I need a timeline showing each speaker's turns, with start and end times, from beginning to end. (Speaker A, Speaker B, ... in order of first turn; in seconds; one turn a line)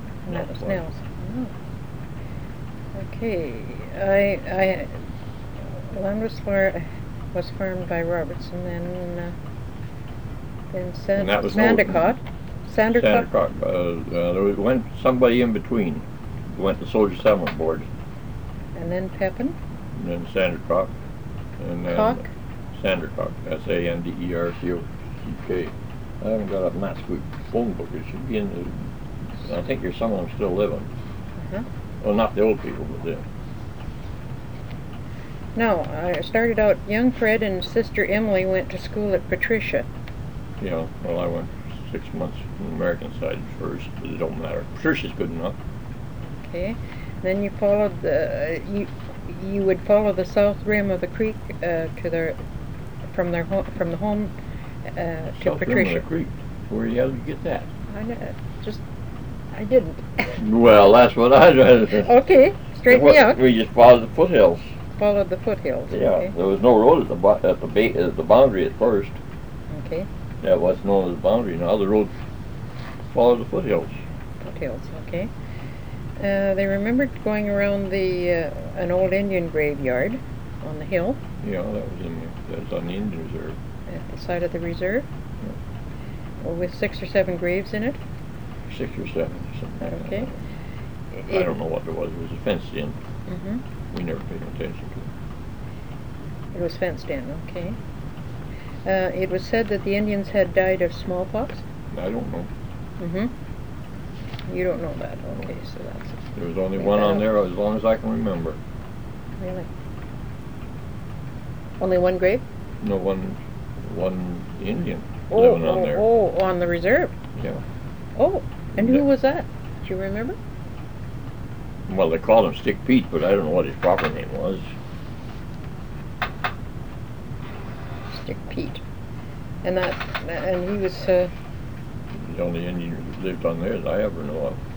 Speaker A: 0.2-1.5
Speaker B: 0.3-0.8
Speaker A: 2.9-4.9
Speaker A: 5.8-9.3
Speaker A: 10.7-13.3
Speaker B: 11.2-12.1
Speaker B: 12.9-17.9
Speaker A: 18.7-19.6
Speaker B: 19.9-20.9
Speaker B: 21.6-22.2
Speaker A: 21.8-22.3
Speaker B: 22.7-30.9
Speaker A: 31.4-31.6
Speaker B: 32.0-33.2
Speaker A: 35.5-39.9
Speaker B: 40.6-45.6
Speaker A: 46.3-52.4
Speaker A: 53.1-54.3
Speaker A: 54.9-56.0
Speaker B: 55.4-57.7
Speaker A: 57.9-58.8
Speaker A: 59.5-60.4
Speaker B: 60.4-62.1
Speaker A: 61.9-63.4
Speaker B: 62.9-64.7
Speaker A: 65.0-66.3
Speaker B: 65.9-69.2
Speaker A: 69.7-70.1
Speaker B: 70.4-72.1
Speaker B: 73.1-74.0
Speaker A: 74.4-75.3
Speaker A: 76.2-81.2
Speaker B: 81.4-83.6
Speaker A: 83.9-85.0
Speaker A: 86.4-88.0
Speaker B: 88.7-90.3
Speaker A: 89.8-90.3
Speaker A: 91.2-91.5
Speaker B: 91.2-93.0
Speaker A: 93.3-93.6
Speaker B: 93.9-95.1
Speaker A: 96.5-97.8
Speaker A: 98.8-101.6
Speaker B: 101.9-102.5
Speaker A: 103.0-103.3
Speaker A: 104.5-107.2
Speaker B: 106.3-108.6
Speaker A: 109.4-109.7
Speaker A: 111.8-112.4
Speaker B: 112.8-116.0
Speaker A: 115.3-117.1
Speaker B: 117.3-117.6
Speaker A: 118.2-120.4
Speaker B: 118.7-119.0
Speaker B: 121.9-124.7
Speaker A: 128.1-128.8
Speaker A: 129.6-131.3
Speaker B: 132.1-134.6